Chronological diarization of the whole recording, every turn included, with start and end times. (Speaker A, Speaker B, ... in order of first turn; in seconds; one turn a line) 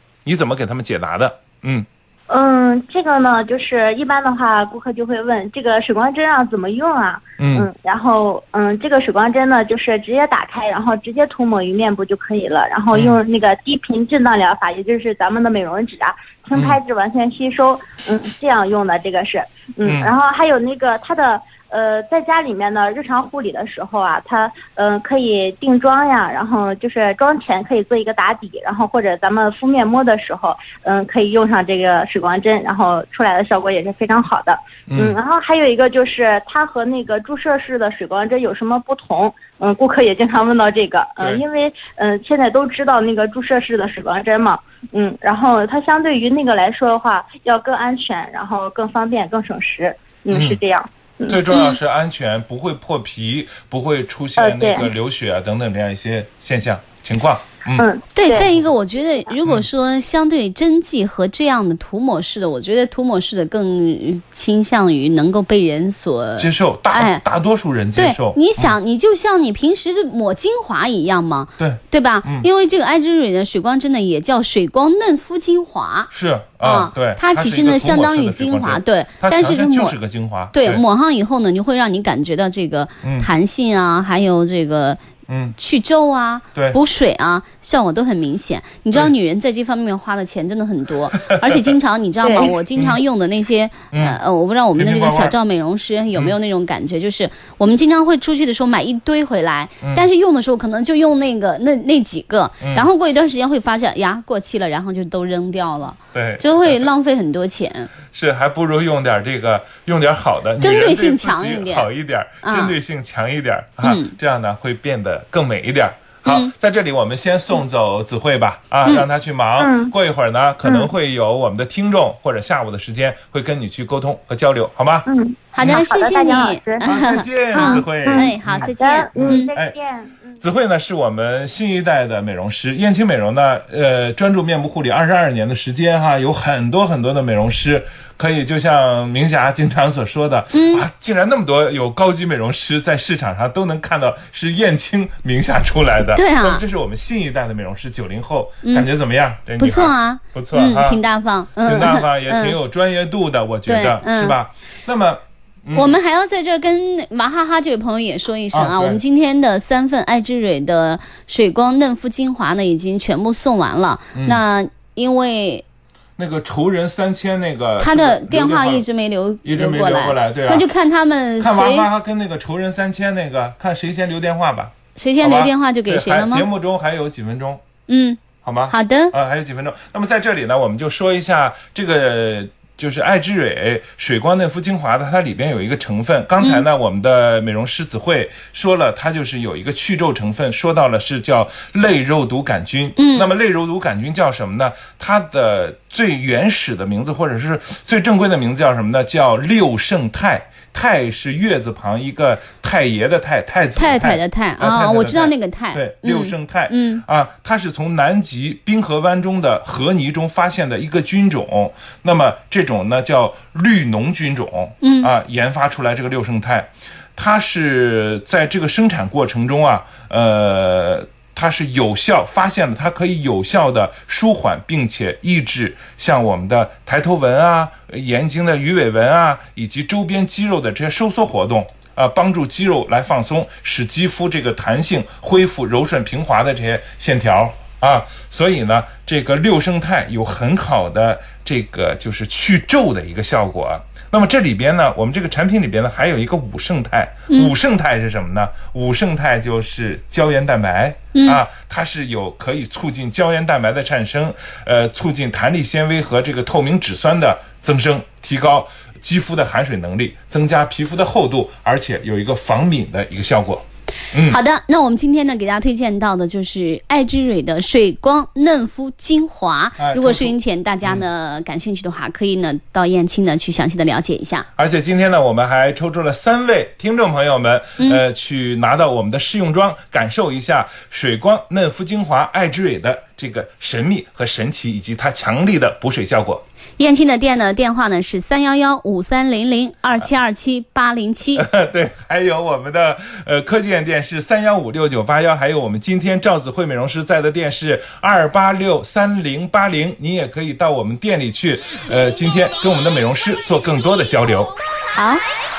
Speaker A: 0.2-1.9
Speaker B: 2.3-51.4
Speaker A: 7.4-7.7
Speaker A: 12.9-13.2
Speaker A: 16.5-16.8
Speaker A: 19.8-20.1
Speaker A: 34.9-35.2
Speaker A: 50.3-50.6
Speaker A: 51.3-57.9
Speaker C: 51.5-51.8
Speaker B: 54.4-54.9
Speaker B: 57.8-58.5
Speaker C: 58.1-67.2
Speaker A: 66.4-68.8
Speaker C: 68.0-80.0
Speaker A: 71.6-72.5
Speaker A: 76.1-80.8
Speaker C: 80.5-85.0
Speaker A: 83.0-83.3
Speaker A: 85.3-85.6
Speaker C: 85.6-107.9
Speaker A: 91.1-91.6
Speaker B: 92.2-92.5
Speaker A: 93.9-94.2
Speaker A: 94.8-95.3
Speaker A: 99.8-100.1
Speaker A: 102.6-102.9
Speaker A: 106.1-106.8
Speaker A: 108.1-125.1
Speaker C: 110.6-111.9
Speaker C: 112.4-112.8
Speaker C: 113.8-114.1
Speaker C: 116.3-116.5
Speaker B: 119.6-119.9
Speaker B: 120.6-120.9
Speaker B: 125.1-127.0
Speaker C: 125.5-129.5
Speaker A: 126.8-129.7
Speaker B: 127.5-130.4
Speaker A: 130.4-151.0
Speaker C: 140.5-140.8
Speaker C: 146.1-146.6
Speaker C: 149.6-152.6
Speaker A: 151.6-156.0
Speaker C: 153.7-154.4
Speaker C: 155.7-165.6
Speaker A: 158.5-159.0
Speaker A: 164.1-164.4
Speaker A: 166.2-168.8
Speaker C: 167.8-171.9
Speaker A: 169.4-170.7
Speaker A: 171.4-177.6
Speaker C: 175.0-176.5
Speaker C: 177.9-179.1
Speaker A: 178.4-264.4
Speaker C: 186.4-186.6
Speaker C: 193.0-193.3
Speaker C: 203.8-207.0
Speaker C: 214.8-215.1
Speaker C: 251.1-251.4
Speaker C: 264.1-274.5
Speaker A: 269.8-271.1
Speaker A: 274.6-286.4
Speaker C: 286.8-291.5
Speaker A: 291.4-304.5
Speaker C: 304.9-305.2